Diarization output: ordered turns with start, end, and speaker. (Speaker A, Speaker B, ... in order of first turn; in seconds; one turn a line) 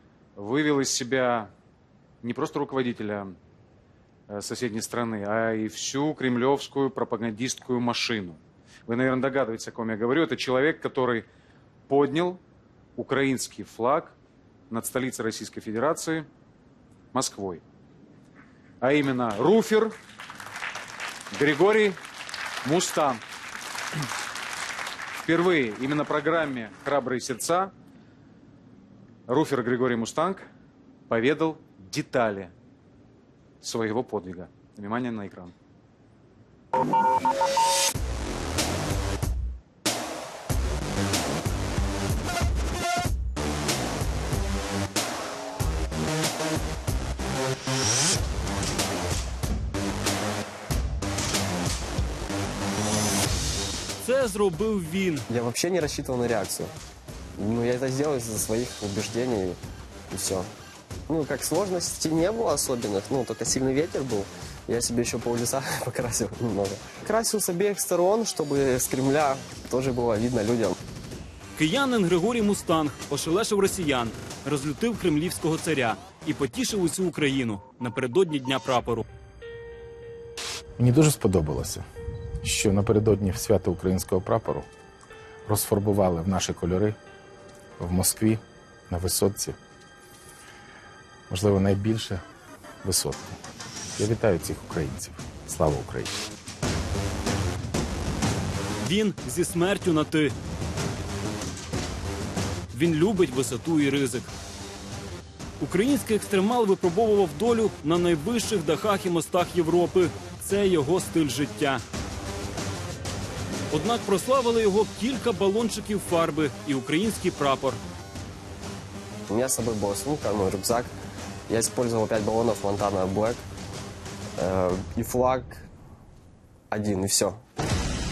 Speaker A: 0.4-1.5
Speaker A: 2.2-3.4
Speaker A: 4.3-11.3
Speaker A: 11.9-12.4
Speaker A: 13.0-14.2
Speaker A: 14.7-16.3
Speaker A: 17.1-17.6
Speaker A: 18.8-19.9
Speaker A: 21.3-22.0
Speaker A: 22.6-23.2
Speaker A: 25.2-27.7
Speaker A: 29.3-30.5
Speaker A: 31.1-32.5
Speaker A: 33.6-35.5
Speaker B: 54.0-55.2
Speaker C: 55.3-56.7
Speaker C: 57.4-59.6
Speaker C: 60.1-60.5
Speaker C: 61.1-70.8
Speaker B: 71.6-79.1
Speaker D: 80.8-81.8
Speaker D: 82.4-84.7
Speaker D: 85.5-87.0
Speaker D: 87.8-89.6
Speaker D: 91.3-92.2
Speaker D: 92.8-93.4
Speaker D: 94.0-96.2
Speaker B: 98.8-100.3
Speaker B: 102.7-104.3
Speaker B: 105.6-111.8
Speaker B: 113.7-117.8
Speaker C: 119.3-120.9
Speaker C: 121.5-123.4
Speaker C: 124.4-125.7
Speaker C: 126.7-127.4